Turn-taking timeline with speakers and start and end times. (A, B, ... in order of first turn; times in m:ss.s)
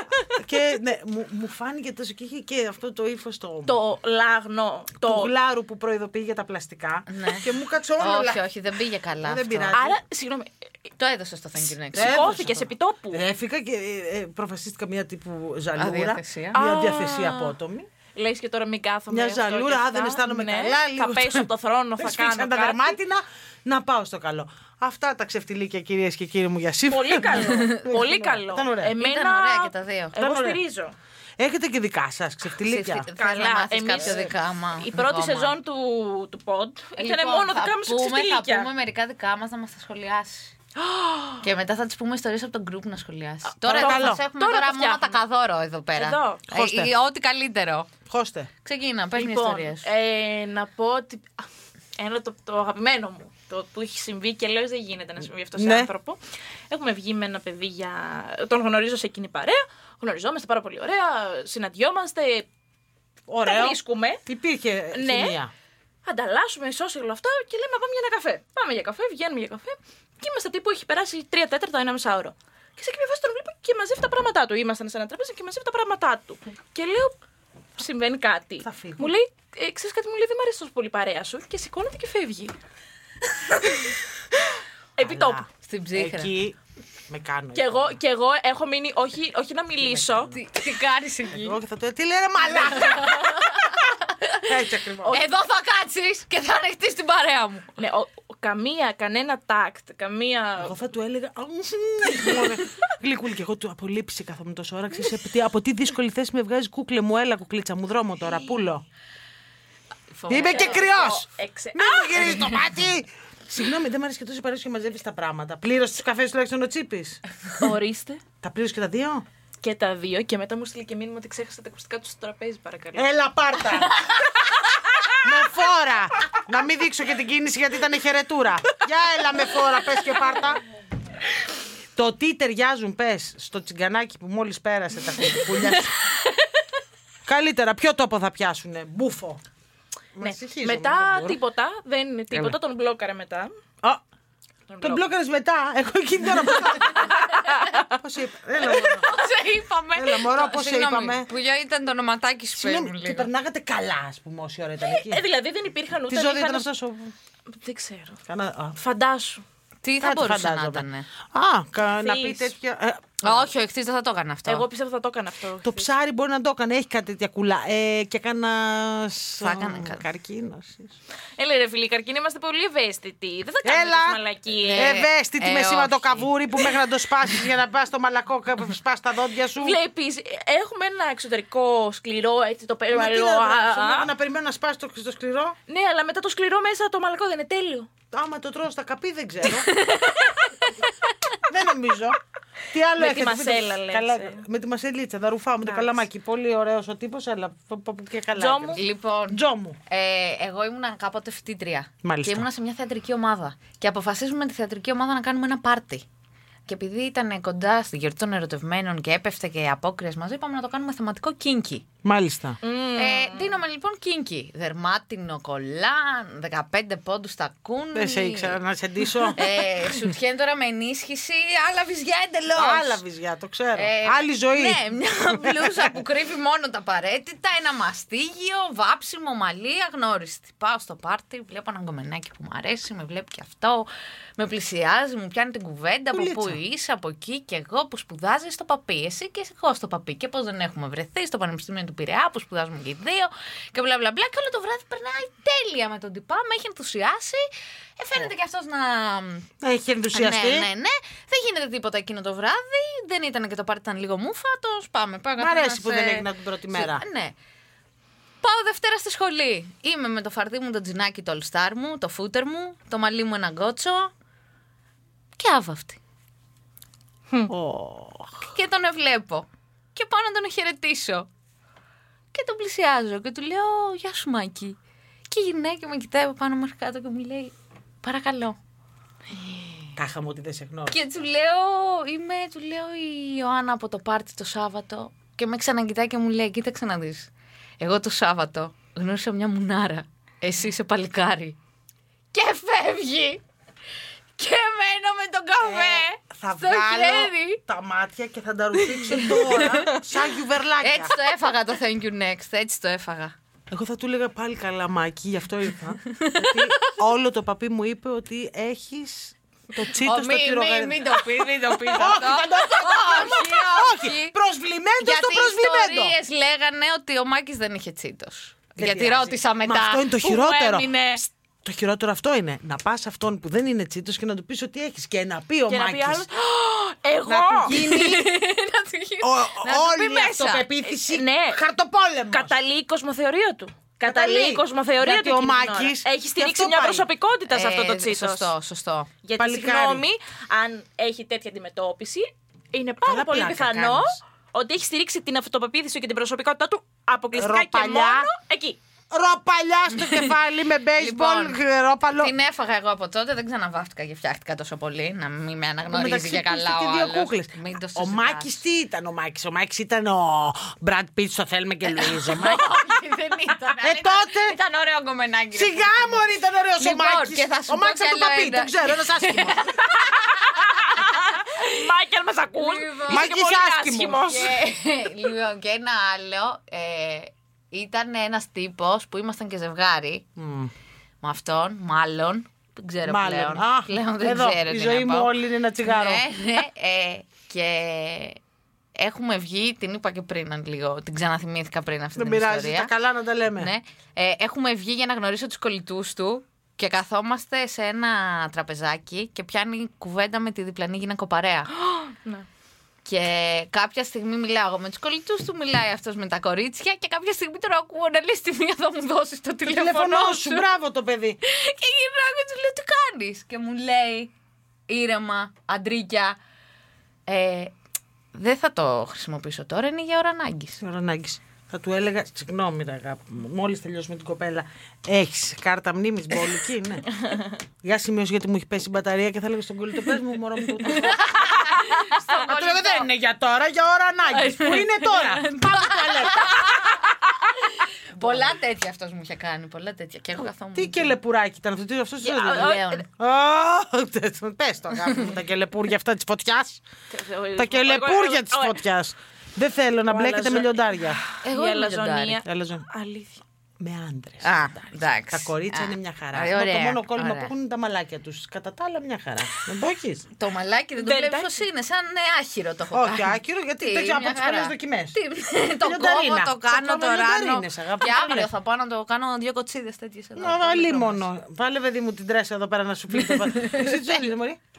0:00.3-0:03.8 A
0:03.7-0:05.3 B
0:05.0-0:08.4 A
0:07.1-0:07.4 C
0:08.0-0:09.8 C
0:09.2-0:10.0 A
0:09.7-0:10.5 B
0:11.0-0:12.3 C
0:11.9-0:13.2 B
0:11.9-0:17.9 A
0:15.8-0:16.6 C
0:16.5-0:17.6 B
0:18.2-0:23.0 B
0:19.1-0:21.5 A
0:22.0-0:29.0 A
0:26.9-0:30.9 B
0:27.4-0:27.9 C
0:29.0-0:30.2 C
0:30.2-0:30.6 A
0:31.4-0:33.1 A
0:32.6-0:35.5 C
0:33.2-0:38.7 B
0:34.0-0:34.3 A
0:37.0-0:40.5 C
0:40.8-0:41.4 B
0:41.4-0:47.9 C
0:43.6-0:45.2 B
0:43.7-0:44.2 A
0:46.0-0:46.4 B
0:46.5-0:46.9 A
0:48.1-0:48.5 A
0:48.6-0:49.9 C
0:49.2-0:56.2 B
0:55.6-0:55.9 A
0:56.7-1:02.5 B
1:03.3-1:05.5 A
1:03.4-1:04.2 B
1:04.9-1:05.4 B
1:06.0-1:17.1 B
1:17.8-1:22.5 B
1:18.6-1:19.2 A
1:23.5-1:24.0 B
1:25.0-1:25.4 B
1:25.0-1:26.6 A
1:25.6-1:26.3 C
1:27.1-1:28.0 A
1:27.6-1:30.3 B
1:29.8-1:30.4 A
1:30.3-1:31.6 C
1:31.3-1:33.3 A
1:32.8-1:34.4 C
1:34.5-1:35.2 A
1:35.1-1:37.7 C
1:37.8-1:40.8 B
1:40.6-1:48.8 A
1:50.2-1:50.8 C
1:50.3-1:57.2 A
1:50.3-1:52.6 B
1:57.5-1:58.2 B
1:58.4-1:59.2 A
1:59.6-2:03.1 B
2:03.0-2:04.0 A
2:05.2-2:10.6 A
2:12.0-2:16.0 A
2:17.3-2:19.4 A
2:20.2-2:21.4 A
2:20.2-2:23.5 B
2:24.7-2:25.0 B
2:24.8-2:27.2 A
2:26.5-2:27.9 B
2:27.9-2:29.1 A
2:28.6-2:33.3 C
2:30.0-2:31.3 A
2:32.6-2:35.2 A
2:34.8-2:36.7 B
2:36.1-2:37.1 A
2:37.5-2:38.2 B
2:38.3-2:38.8 A
2:38.8-2:39.4 B
2:39.8-2:41.1 C
2:40.0-2:43.5 A
2:42.0-2:42.5 B
2:43.2-2:44.7 C
2:44.5-2:45.9 B
2:45.6-2:51.0 A
2:49.4-2:50.0 C
2:51.4-2:55.0 B
2:53.6-2:54.2 A
2:54.6-2:56.3 C
2:54.7-2:59.8 A
2:59.6-3:04.1 B
3:02.9-3:05.6 A
3:05.7-3:07.9 B
3:08.1-3:09.7 A
3:09.7-3:10.7 C
3:11.4-3:12.2 A
3:12.7-3:19.8 A
3:13.0-3:14.4 B
3:15.6-3:16.0 B
3:18.4-3:18.8 B
3:18.8-3:26.0 C
3:22.0-3:22.5 A
3:26.7-3:31.8 C
3:32.0-3:32.6 A
3:32.6-3:33.6 B
3:33.0-3:38.6 C
3:37.9-3:40.1 A
3:39.4-3:43.0 C
3:42.5-3:46.0 A
3:43.8-4:09.5 C
3:56.1-3:56.6 A
4:09.6-4:10.7 A
4:10.1-4:17.4 C
4:15.4-4:17.0 A
4:18.4-4:24.1 C
4:25.4-4:26.0 C
4:27.5-4:28.4 A
4:28.5-4:31.3 C
4:32.3-4:34.8 C
4:35.3-4:38.6 C
4:40.0-4:41.0 A
4:40.9-4:51.6 C
4:52.3-4:53.4 C
4:54.4-4:57.6 C
4:55.6-5:01.1 A
4:59.1-5:00.0 C
5:00.8-5:03.3 C
5:03.7-5:16.2 A
5:06.1-5:07.0 C
5:10.0-5:14.3 C
5:15.0-5:21.2 C
5:18.8-5:26.3 A
5:25.7-5:27.8 B
5:27.2-5:28.3 A
5:27.7-5:30.7 C
5:29.2-5:32.6 A
5:30.9-5:31.6 B
5:32.3-5:38.5 B
5:34.0-5:37.1 A
5:37.5-5:39.1 C
5:39.2-5:48.8 B
5:39.4-5:40.1 A
5:43.0-5:44.2 A
5:47.3-5:48.3 A
5:49.1-5:52.3 A
5:51.0-5:51.6 C
5:52.2-5:58.6 C
5:55.9-6:02.7 A
6:01.9-6:06.2 C
6:03.8-6:04.6 A
6:05.5-6:09.8 A
6:06.8-6:11.6 C
6:10.0-6:14.6 B
6:12.6-6:13.3 C
6:13.1-6:14.4 A
6:14.2-6:20.3 C
6:20.4-6:20.7 A
6:21.2-6:25.3 C
6:23.0-6:26.2 A
6:25.8-6:28.4 C
6:29.0-6:32.9 C
6:32.2-6:33.7 A
6:33.6-6:41.7 C
6:41.7-6:42.5 B
6:43.0-6:50.7 C
6:49.7-6:51.4 A
6:51.4-6:54.3 C
6:54.9-6:56.4 C
6:57.3-6:57.7 C
6:58.3-7:00.8 C
7:00.8-7:07.1 A
7:07.8-7:11.7 A
7:10.9-7:13.0 C
7:12.1-7:12.8 B
7:12.3-7:16.8 A
7:14.3-7:17.0 C
7:17.6-7:21.2 C
7:18.2-7:18.5 A
7:20.8-7:26.8 A
7:22.2-7:23.0 B
7:22.4-7:23.1 C
7:27.1-7:28.8 B
7:27.6-7:31.2 A
7:30.1-7:33.4 B
7:31.4-7:32.4 C
7:32.4-7:32.8 A
7:33.8-7:40.3 A
7:34.4-7:37.5 C
7:40.4-7:51.3 C
7:41.0-7:41.5 B
7:42.9-7:45.2 A
7:45.8-7:48.5 A
7:50.4-7:54.6 A
7:53.2-7:54.0 C